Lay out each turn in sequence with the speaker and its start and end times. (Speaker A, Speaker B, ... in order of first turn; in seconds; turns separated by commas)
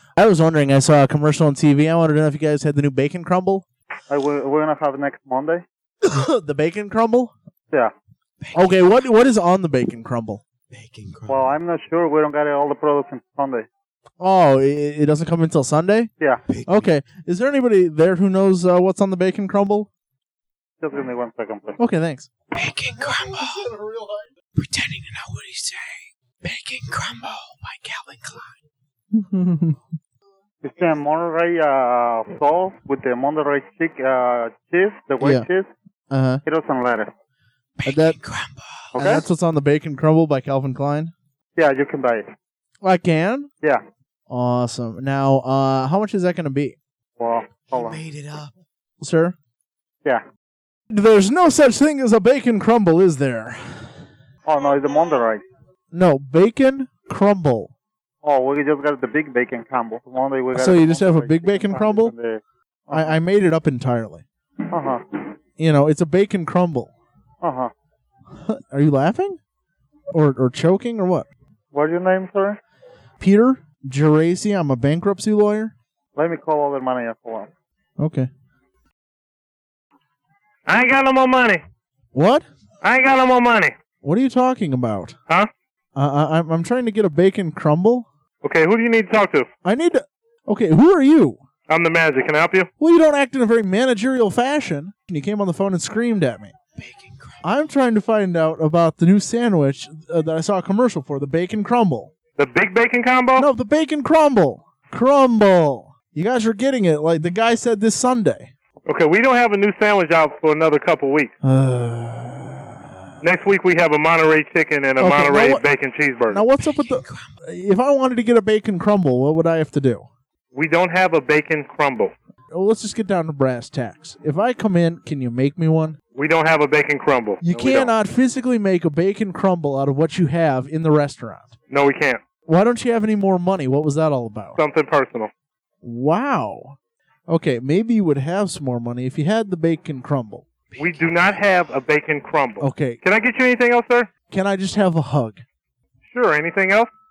Speaker A: 0.2-3.6, Speaker B: 4.1-5.6, Speaker A: 6.0-7.3, Speaker C: 8.4-9.0, Speaker A: 8.5-10.4, Speaker C: 10.7-11.5, Speaker B: 11.3-13.7, Speaker A: 14.2-16.1, Speaker C: 16.5-16.9, Speaker A: 16.7-19.9, Speaker B: 20.8-21.8, Speaker A: 21.8-22.3, Speaker C: 22.5-23.8, Speaker C: 24.6-28.6, Speaker A: 29.1-29.8, Speaker B: 30.6-35.7, Speaker A: 35.2-35.5, Speaker A: 36.1-36.4, Speaker B: 36.5-37.1, Speaker C: 37.8-39.2, Speaker A: 37.9-38.2, Speaker B: 39.0-39.2, Speaker A: 39.0-41.1, Speaker B: 41.6-42.3, Speaker A: 42.8-43.5, Speaker A: 44.3-46.8, Speaker B: 47.2-48.0, Speaker C: 47.7-48.5, Speaker A: 49.0-49.4, Speaker A: 50.9-53.9, Speaker B: 54.5-55.4, Speaker A: 55.9-57.7, Speaker B: 58.2-63.2, Speaker A: 60.5-62.1, Speaker A: 62.9-64.2, Speaker B: 64.7-65.0, Speaker A: 65.6-66.9, Speaker B: 67.4-67.7, Speaker A: 68.4-69.4, Speaker A: 70.1-71.3, Speaker B: 71.7-72.6, Speaker A: 73.2-75.7, Speaker B: 76.2-77.5, Speaker A: 78.0-78.3, Speaker D: 80.7-81.6, Speaker A: 82.1-82.5, Speaker D: 82.8-83.7, Speaker A: 84.0-85.2, Speaker A: 86.0-88.1, Speaker D: 88.4-89.5, Speaker A: 89.6-91.4, Speaker D: 91.7-92.7, Speaker A: 92.8-96.5, Speaker C: 96.8-97.4, Speaker A: 97.4-102.1, Speaker D: 102.4-103.5, Speaker A: 103.4-108.5, Speaker D: 108.9-111.3, Speaker A: 111.4-113.0, Speaker D: 113.2-116.4, Speaker A: 115.0-115.7, Speaker A: 116.3-120.1, Speaker C: 116.6-117.3, Speaker D: 120.5-122.1, Speaker A: 122.5-126.0, Speaker D: 126.2-127.9, Speaker A: 127.4-131.5, Speaker D: 131.7-132.2, Speaker A: 132.5-134.6, Speaker D: 134.6-135.3, Speaker A: 135.8-136.8, Speaker A: 137.3-140.4, Speaker C: 140.7-141.5, Speaker D: 140.8-144.1, Speaker A: 142.6-143.0, Speaker A: 144.3-145.4, Speaker D: 146.1-146.9